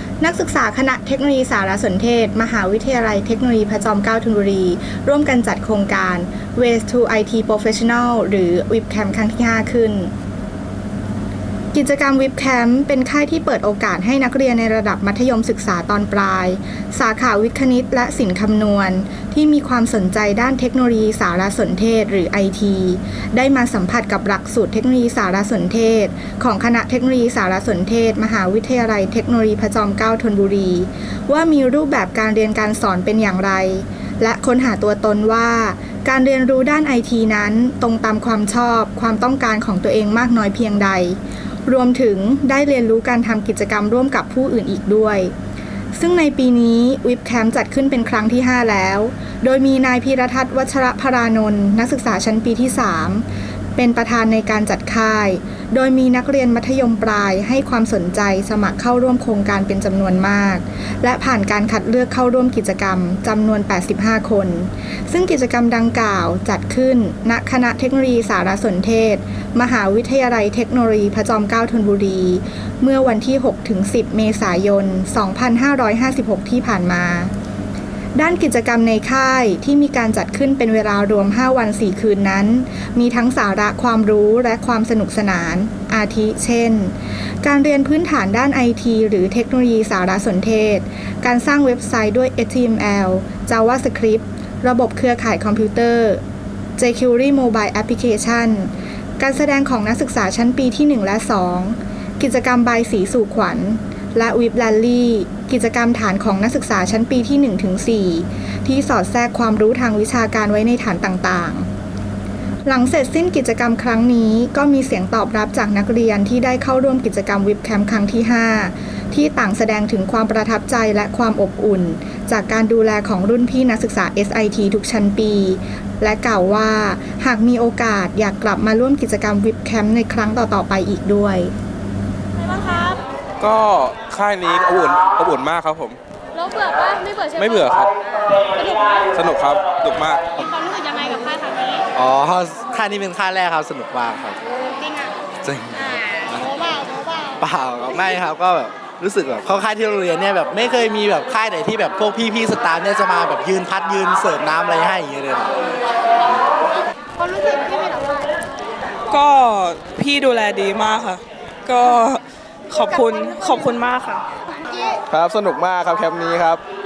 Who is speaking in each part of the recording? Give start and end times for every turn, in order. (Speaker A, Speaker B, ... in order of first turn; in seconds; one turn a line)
Speaker A: 0.2-10.1
Speaker A: 11.7-45.3
Speaker A: 45.9-53.2
Speaker A: 53.8-77.3
Speaker A: 78.2-96.2
Speaker A: 96.8-111.7
Speaker A: 112.7-131.5
Speaker B: 132.5-133.0
Speaker C: 133.4-136.0
Speaker B: 136.4-137.3
Speaker C: 137.3-137.9
Speaker B: 138.6-139.1
Speaker C: 139.1-140.2
Speaker B: 140.4-141.8
Speaker D: 141.9-144.4
Speaker B: 144.8-145.1
Speaker D: 145.4-146.5
Speaker B: 146.7-146.9
Speaker D: 147.4-155.7
Speaker B: 157.2-158.2
Speaker E: 159.1-164.2
Speaker B: 164.7-165.0
Speaker C: 165.1-166.6